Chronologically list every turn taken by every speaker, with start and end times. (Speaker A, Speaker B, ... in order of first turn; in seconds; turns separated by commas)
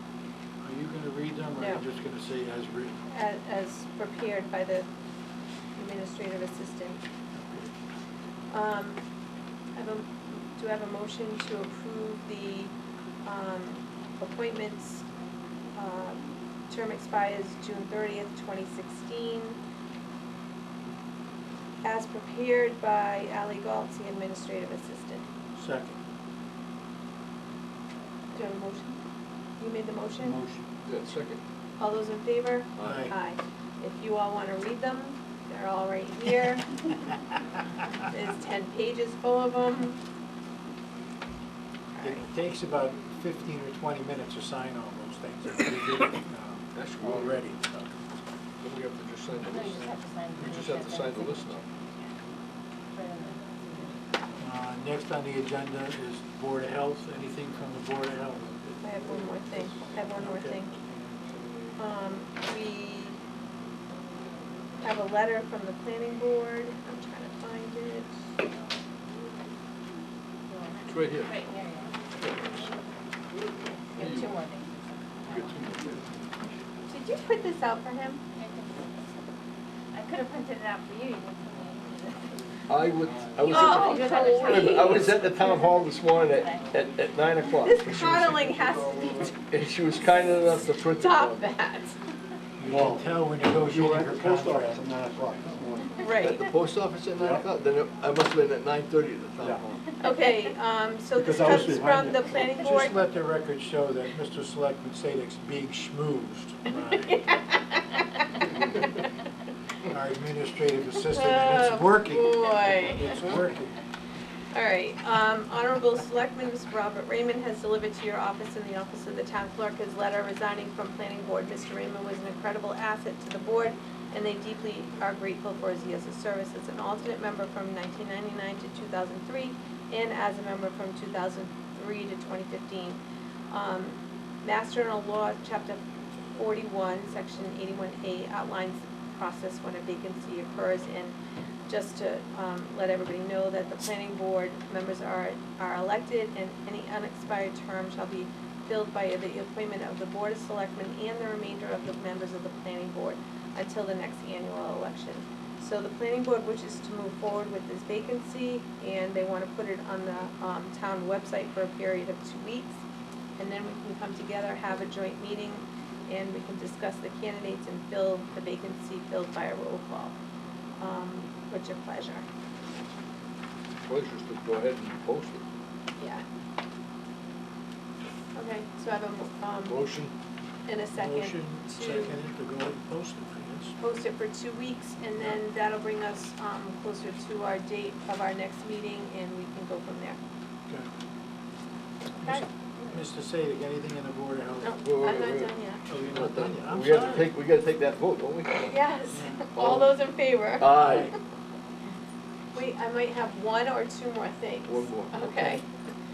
Speaker A: 0.6-3.0, Speaker B: 1.6-1.8, Speaker B: 3.1-4.8, Speaker B: 5.8-7.0, Speaker A: 7.3-7.7, Speaker B: 8.5-9.0, Speaker B: 9.8-12.7, Speaker B: 13.2-15.1, Speaker B: 15.8-19.6, Speaker B: 21.8-25.2, Speaker A: 25.6-26.0, Speaker B: 28.3-29.0, Speaker B: 29.6-30.4, Speaker A: 30.2-30.7, Speaker C: 30.9-31.4, Speaker B: 31.8-36.8, Speaker C: 32.8-33.0, Speaker A: 32.8-33.1, Speaker B: 38.0-40.0, Speaker B: 41.9-42.2, Speaker A: 42.0-47.9, Speaker C: 46.7-47.4, Speaker C: 48.6-51.6, Speaker D: 49.4-52.1, Speaker D: 52.9-54.0, Speaker A: 54.4-58.6, Speaker B: 58.8-60.7, Speaker A: 60.2-60.7, Speaker B: 61.8-63.2, Speaker B: 64.8-68.2, Speaker D: 70.5-72.0, Speaker C: 70.9-71.3, Speaker C: 72.2-72.5, Speaker D: 73.9-75.8, Speaker C: 74.0-74.3, Speaker C: 75.3-76.2, Speaker B: 76.9-78.2, Speaker D: 78.3-79.0, Speaker D: 79.9-82.4, Speaker C: 82.7-88.4, Speaker E: 83.1-83.4, Speaker D: 83.4-86.8, Speaker B: 83.5-85.6, Speaker B: 87.6-89.3, Speaker C: 89.5-91.4, Speaker B: 90.9-92.0, Speaker A: 92.6-94.9, Speaker E: 93.9-96.0, Speaker B: 96.0-96.4, Speaker C: 96.2-99.8, Speaker B: 100.0-103.0, Speaker E: 101.2-102.0, Speaker A: 102.4-107.2, Speaker B: 107.0-108.0, Speaker A: 109.9-113.8, Speaker B: 111.1-113.2, Speaker B: 114.5-133.0, Speaker B: 133.5-135.8, Speaker B: 136.3-141.1, Speaker B: 141.7-162.8, Speaker B: 163.4-170.1, Speaker B: 170.8-172.2, Speaker C: 173.9-175.4, Speaker B: 176.0-176.2, Speaker B: 178.3-179.8, Speaker C: 179.7-180.1, Speaker B: 180.7-182.1, Speaker A: 180.9-183.8, Speaker B: 183.8-190.2, Speaker B: 192.1-192.9, Speaker A: 192.2-194.7, Speaker B: 194.6-195.8, Speaker C: 194.8-195.5, Speaker A: 195.9-197.3, Speaker C: 196.1-198.7, Speaker B: 198.6-201.1, Speaker A: 199.1-199.4, Speaker C: 199.6-199.9, Speaker C: 200.6-201.1, Speaker B: 202.5-205.6, Speaker C: 204.7-205.6